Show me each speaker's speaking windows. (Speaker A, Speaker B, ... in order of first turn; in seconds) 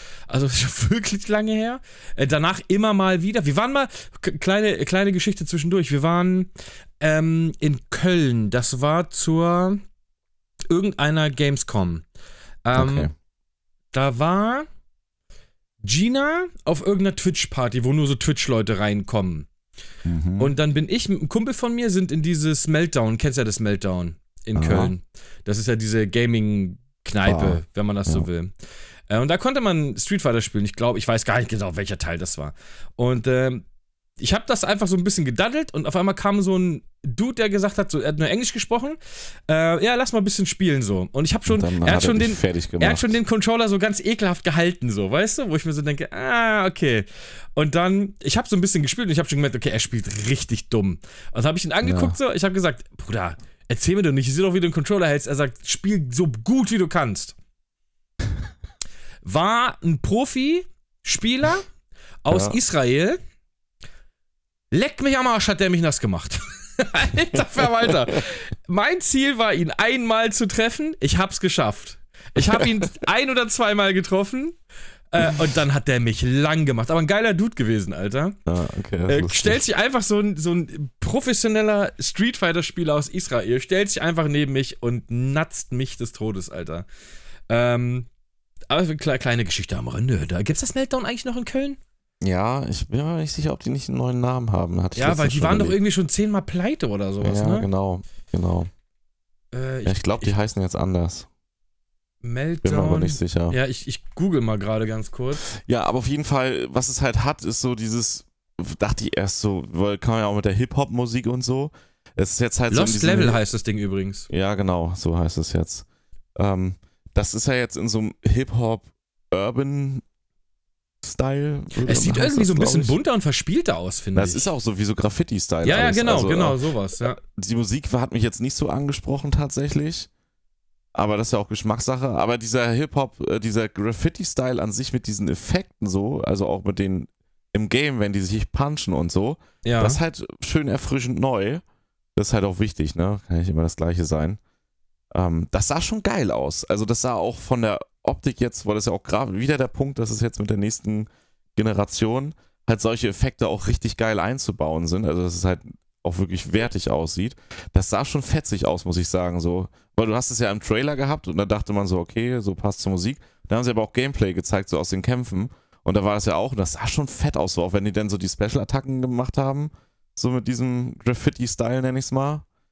Speaker A: 0.3-9.8, 10.7-12.0, 12.6-13.1, 13.9-14.7, 15.8-19.5, 20.4-28.5, 29.1-33.6, 34.2-57.3, 59.2-61.6, 62.2-63.2, 64.7-74.5, 75.1-78.4, 79.1-86.8, 87.5-88.1, 88.7-91.8, 95.0-97.7, 99.5-100.3, 102.2-105.5, 112.7-114.3, 121.8-124.5, 125.6-127.2, 139.6-140.0
Speaker B: 12.7-13.1, 20.1-20.5, 24.5-24.9, 27.2-28.3, 41.5-43.2, 51.8-52.2, 62.3-62.6, 72.4-72.8, 78.5-79.6, 92.2-95.8, 97.2-98.7, 99.8-101.3, 102.6-103.6, 105.5-113.4, 114.3-115.8, 116.3-120.0, 121.0-123.0, 124.1-126.6, 127.1-130.1, 130.9-141.6, 142.2-144.4, 145.1-172.4